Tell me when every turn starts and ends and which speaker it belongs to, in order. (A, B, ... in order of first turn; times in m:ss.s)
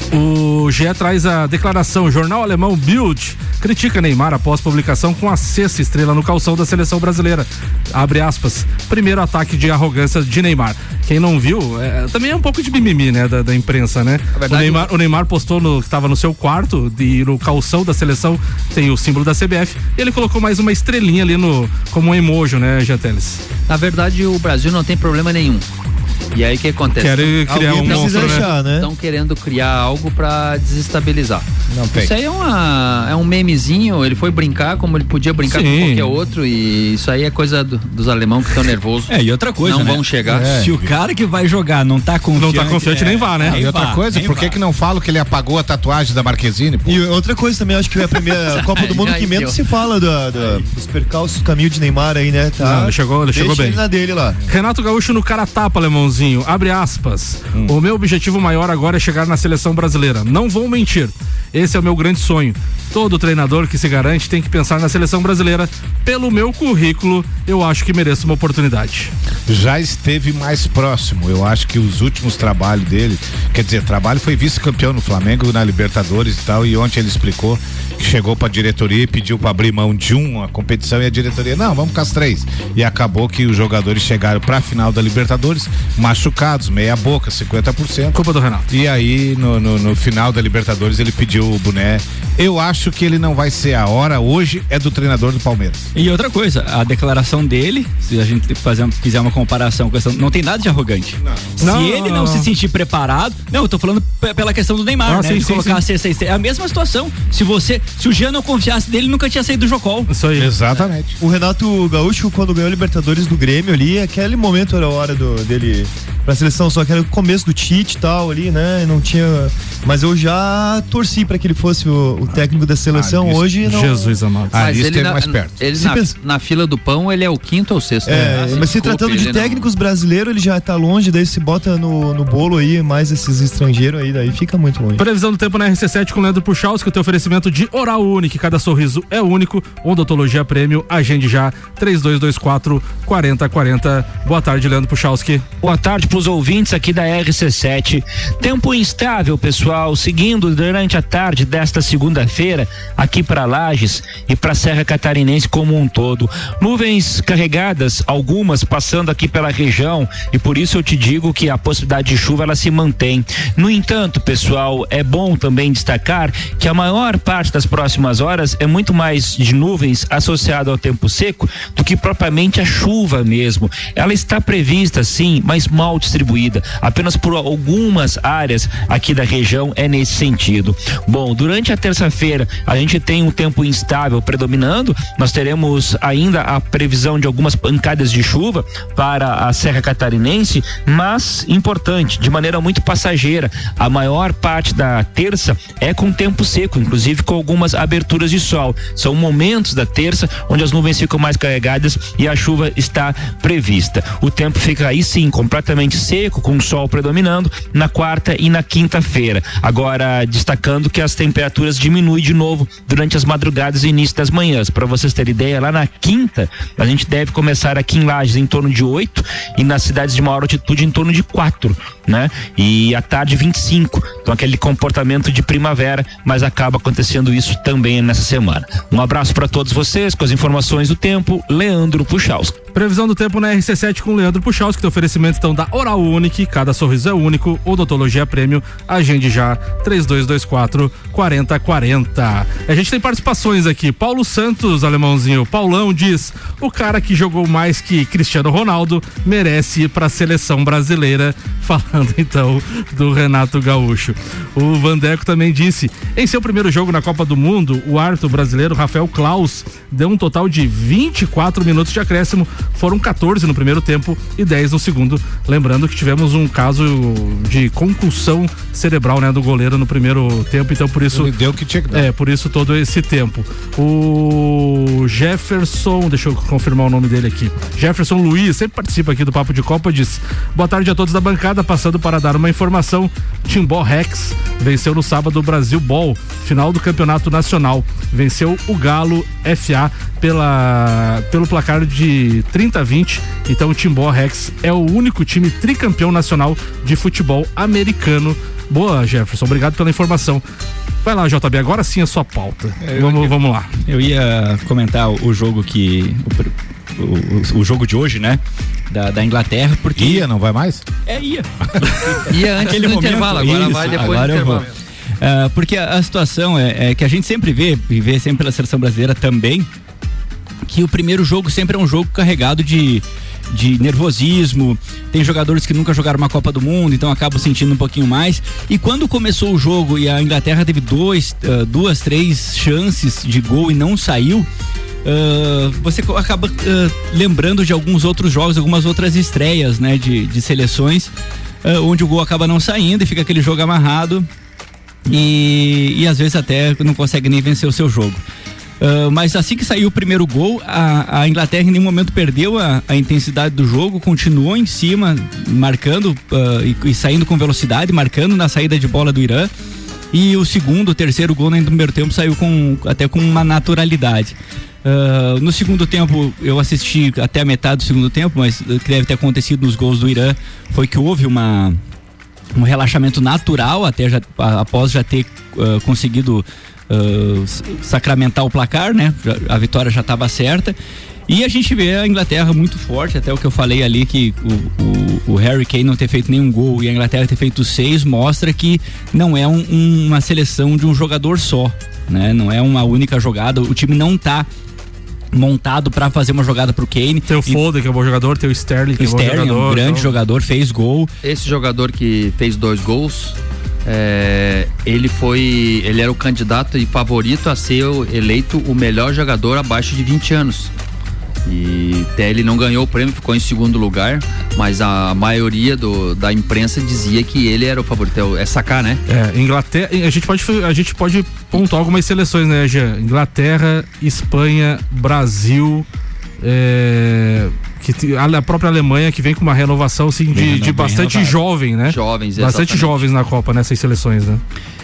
0:00.1-0:23.4 A
0:14.3-0:14.9 B
0:23.7-0:25.6 B
0:26.3-0:40.5 B
0:27.0-0:28.5 A
0:27.5-0:28.9 C
0:31.7-0:32.1 D
0:35.4-0:36.2 A
0:39.1-0:44.5 E
0:40.2-0:40.9 D
0:42.4-0:43.6 A
0:43.5-0:47.0 D
0:46.8-0:54.4 C
0:48.5-0:49.6 B
0:52.6-0:53.8 A
0:54.5-1:09.1 A
1:09.5-1:35.9 D
1:28.1-1:28.7 A
1:35.9-1:50.1 E
1:41.6-1:42.5 A
1:45.0-1:45.8 A
1:50.1-1:50.5 A
1:50.4-1:51.2 D
1:51.2-2:04.1 C
2:02.9-2:03.5 D
2:03.6-2:04.6 A
2:04.5-2:05.6 D
2:04.6-2:09.7 B
2:05.8-2:06.1 C
2:08.0-2:15.0 C
2:15.0-2:25.6 A
2:25.6-3:52.6 F
3:52.7-4:31.3 A
4:31.1-4:32.1 D
4:31.9-5:00.4 A
5:01.0-5:03.7 A
5:02.8-5:03.3 E
5:03.8-5:10.2 E
5:09.9-5:10.8 D
5:11.0-5:14.6 E
5:12.3-5:14.6 B
5:15.2-5:19.7 E
5:20.7-5:34.5 E
5:35.0-5:41.1 E
5:41.6-5:44.3 E
5:45.0-5:48.2 E
5:48.8-5:59.5 E
6:00.1-6:11.8 E
6:12.5-6:20.8 E
6:21.3-6:34.5 E
6:35.3-6:37.6 E
6:37.3-6:40.1 A
6:39.0-6:41.1 E
6:41.2-6:50.7 B
6:51.4-6:59.0 B
6:59.1-7:05.8 A
7:06.4-7:14.4 A
7:10.3-7:11.4 E
7:11.9-7:13.0 B